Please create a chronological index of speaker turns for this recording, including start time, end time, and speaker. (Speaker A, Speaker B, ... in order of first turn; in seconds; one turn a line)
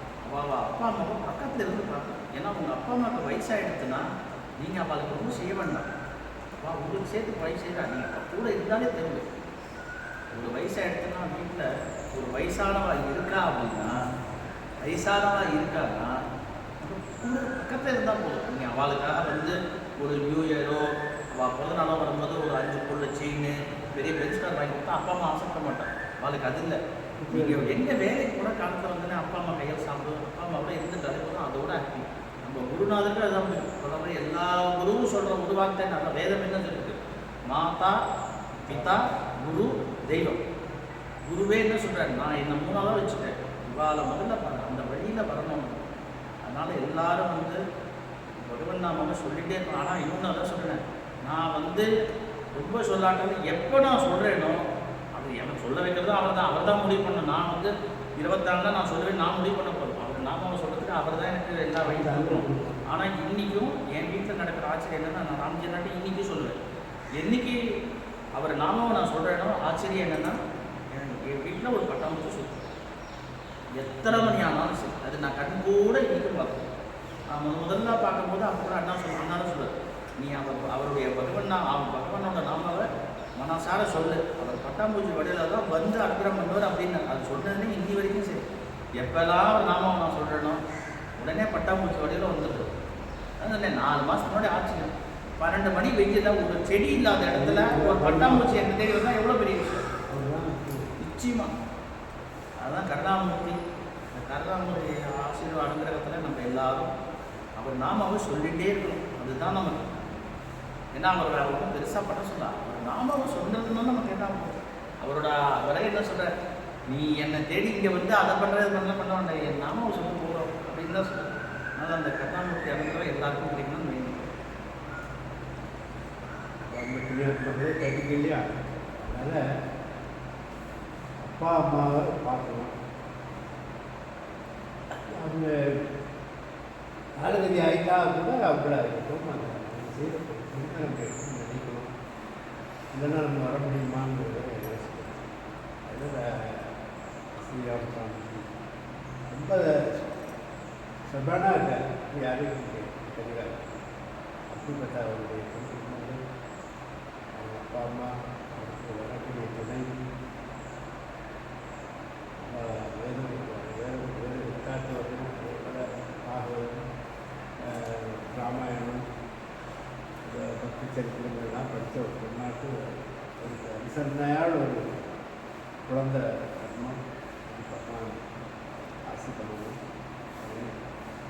Speaker A: 0.2-4.0
Speaker A: 4.6-5.9
Speaker A: 6.6-9.2
Speaker A: 10.3-13.9
Speaker A: 14.8-16.1
Speaker A: 16.8-20.8
Speaker A: 21.3-26.8
Speaker B: 27.2-27.8
Speaker A: 27.3-37.0
Speaker A: 37.5-38.0
Speaker B: 38.6-39.0
Speaker A: 38.7-40.4
Speaker A: 41.3-45.8
Speaker A: 46.4-47.6
Speaker A: 48.4-51.9
Speaker A: 52.5-54.6
Speaker A: 55.1-66.5
Speaker B: 61.8-62.8
Speaker A: 67.2-67.5
Speaker A: 68.3-70.3
Speaker A: 70.9-72.7
Speaker A: 73.8-76.7
Speaker B: 74.1-74.4
Speaker A: 77.3-82.8
Speaker A: 83.4-88.4
Speaker A: 89.0-90.6
Speaker A: 91.2-92.7
Speaker A: 93.4-99.8
Speaker B: 97.3-98.7
Speaker B: 100.1-100.8
Speaker A: 101.0-101.5
Speaker A: 102.6-103.6
Speaker A: 104.1-106.9
Speaker A: 107.6-109.8
Speaker A: 110.9-116.3
Speaker A: 116.9-124.3
Speaker B: 126.7-128.4
Speaker B: 129.0-129.4
Speaker B: 131.2-132.7
Speaker B: 135.2-135.5
Speaker B: 137.2-141.9
Speaker B: 142.9-145.2
Speaker B: 145.8-146.7
Speaker B: 147.4-148.5
Speaker B: 149.3-150.0
Speaker B: 151.1-153.6
Speaker B: 154.5-156.2
Speaker B: 157.3-160.0
Speaker B: 162.5-166.8
Speaker B: 167.7-169.0
Speaker B: 170.2-172.7
Speaker B: 173.4-174.8
Speaker B: 175.9-178.2
Speaker B: 179.1-179.8
Speaker B: 180.4-180.7